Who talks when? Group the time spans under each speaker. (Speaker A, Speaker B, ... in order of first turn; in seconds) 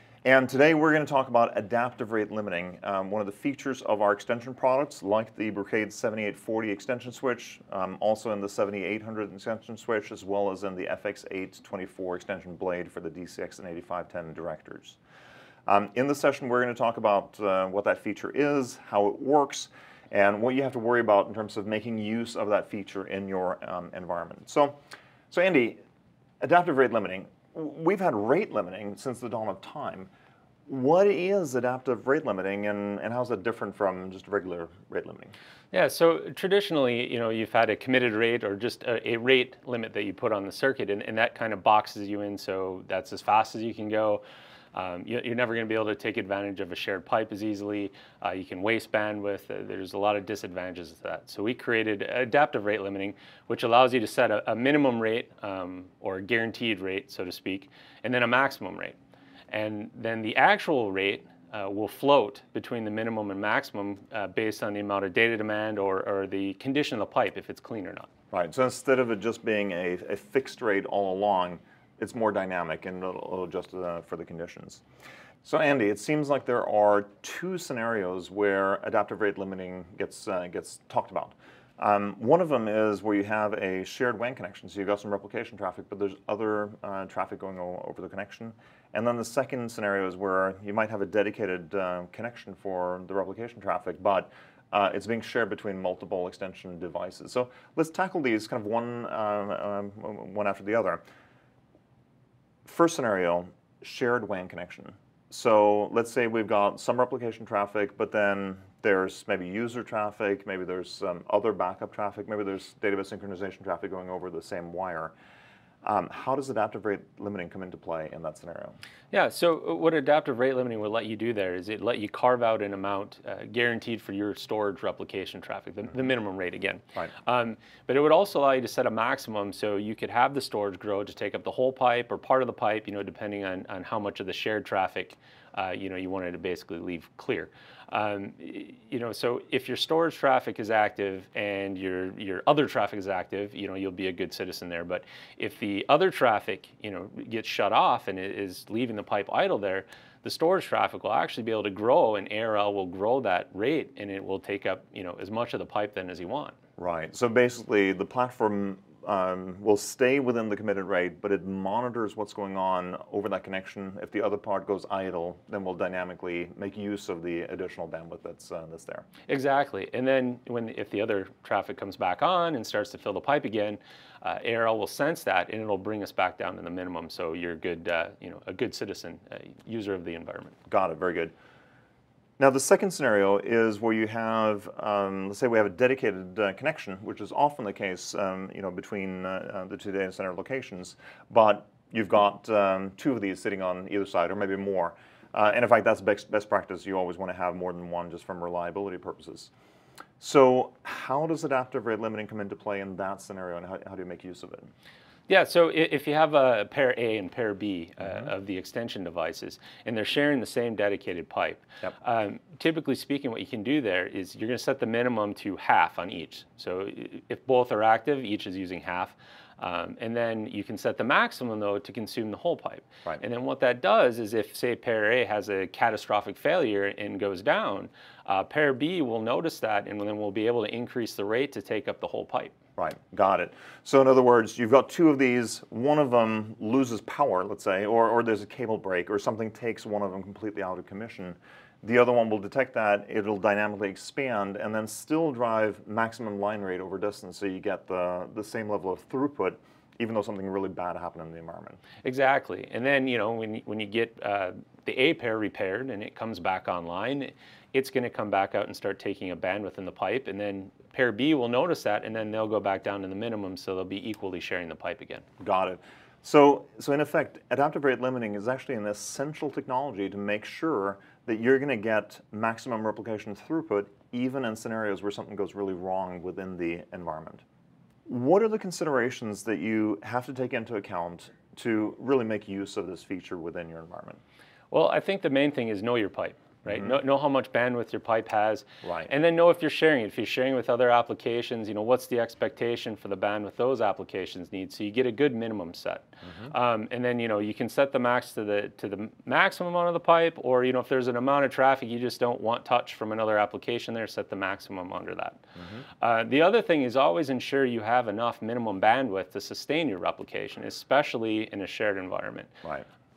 Speaker A: 0.2-15.0, 15.7-24.8, 25.3-25.8, 26.4-30.1, 30.7-35.3, 68.3-74.8, 75.4-101.0, 102.7-115.1, 115.8-118.8, 156.8-169.1, 180.7-181.3, 182.4-199.5, 200.2-204.7, 232.8-251.8, 265.4-277.4, 278.1-284.2, 288.8-289.1, 296.3-296.5, 305.6-305.8
Speaker B: 35.7-44.2, 44.7-59.0, 59.5-68.1, 119.1-156.6, 169.3-180.6, 205.3-232.6, 252.0-265.2, 284.7-305.4, 306.0-312.5